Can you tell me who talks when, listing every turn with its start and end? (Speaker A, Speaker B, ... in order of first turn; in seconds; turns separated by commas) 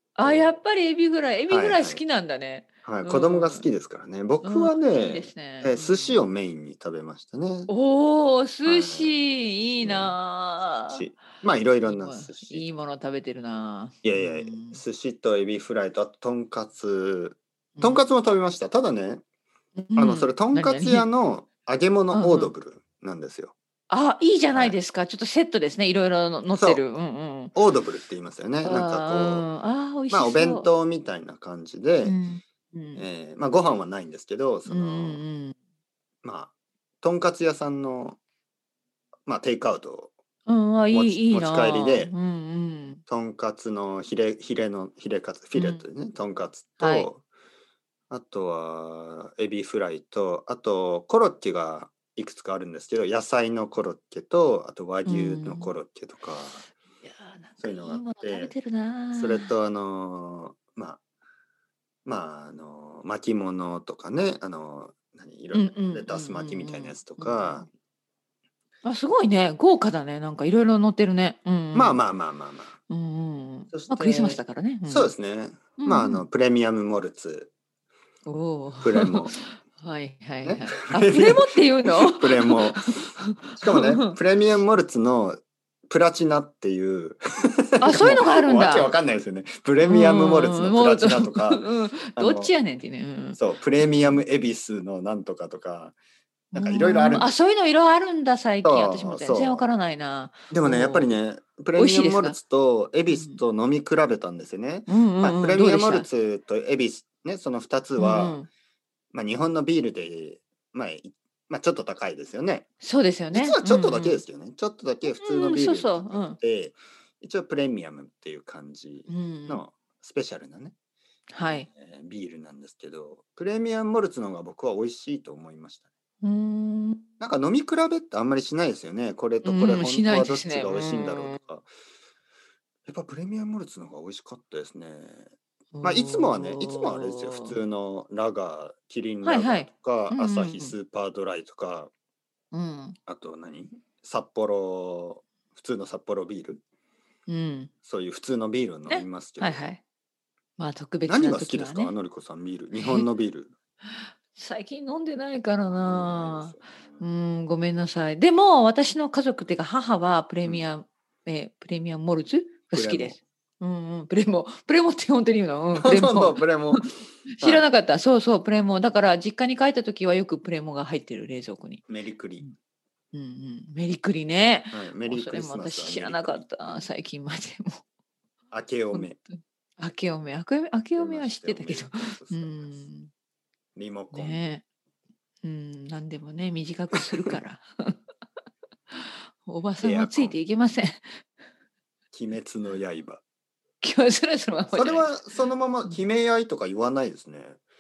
Speaker A: 0.2-3.7, Speaker B: 0.2-0.5, Speaker B: 1.5-2.0, Speaker B: 2.9-7.7, Speaker A: 4.4-6.2, Speaker A: 7.7-11.1, Speaker B: 8.7-9.2, Speaker B: 9.8-10.2, Speaker B: 10.9-12.7, Speaker A: 11.9-14.8, Speaker B: 14.0-19.2, Speaker A: 17.8-18.0, Speaker A: 19.8-21.1, Speaker B: 20.0-23.5, Speaker A: 22.1-22.5, Speaker A: 23.9-27.5, Speaker B: 24.5-24.8, Speaker B: 26.5-26.8, Speaker B: 27.6-29.5, Speaker A: 28.6-30.7, Speaker B: 30.1-32.2, Speaker A: 32.0-33.0, Speaker B: 33.0-35.2, Speaker A: 34.7-35.5, Speaker B: 36.2-38.2, Speaker B: 39.3-40.1, Speaker A: 40.5-43.0, Speaker B: 40.9-42.1, Speaker B: 43.1-47.2, Speaker A: 45.6-45.9, Speaker A: 46.8-47.1, Speaker B: 48.1-56.6, Speaker A: 55.0-55.8, Speaker A: 57.0-59.5, Speaker B: 57.6-58.5, Speaker B: 59.1-61.0, Speaker B: 62.0-67.7, Speaker A: 65.5-67.7, Speaker A: 68.8-72.0, Speaker B: 71.7-72.8, Speaker A: 72.9-75.1, Speaker B: 73.7-77.5, Speaker A: 75.8-76.2, Speaker A: 78.3-84.2, Speaker B: 78.8-79.3, Speaker B: 80.5-92.5, Speaker A: 87.8-88.9, Speaker A: 89.8-94.2, Speaker B: 93.4-96.0, Speaker B: 96.5-97.3, Speaker A: 96.5-101.2, Speaker B: 98.6-99.6, Speaker B: 100.5-108.4, Speaker A: 101.8-102.4, Speaker A: 103.1-103.4, Speaker A: 104.9-106.1, Speaker A: 108.0-108.5, Speaker B: 109.1-112.7, Speaker A: 112.8-114.2, Speaker B: 113.3-120.7, Speaker A: 115.1-116.4, Speaker A: 119.1-119.6, Speaker A: 121.3-121.7, Speaker B: 121.5-125.9, Speaker A: 126.2-127.0, Speaker B: 127.2-131.7, Speaker A: 129.4-131.4, Speaker B: 132.9-135.3, Speaker A: 135.7-137.6, Speaker B: 135.8-141.9, Speaker A: 139.2-140.8, Speaker A: 142.5-143.0, Speaker B: 143.1-146.6, Speaker A: 147.3-147.7, Speaker B: 147.8-149.7, Speaker A: 148.9-149.8, Speaker A: 150.6-151.9, Speaker B: 151.1-153.5, Speaker A: 152.8-153.1, Speaker A: 154.0-171.8, Speaker B: 155.7-157.0, Speaker B: 162.7-163.2, Speaker B: 165.8-166.9, Speaker B: 167.4-167.7, Speaker B: 171.9-172.5, Speaker A: 173.1-177.8, Speaker B: 174.7-176.4, Speaker B: 178.5-179.2, Speaker A: 178.9-183.1, Speaker B: 181.0-182.8, Speaker B: 183.8-184.4, Speaker A: 184.1-184.6, Speaker A: 185.4-187.9, Speaker A: 189.4-191.2, Speaker B: 189.8-190.4, Speaker B: 192.1-193.2, Speaker A: 193.8-195.1, Speaker B: 194.7-197.6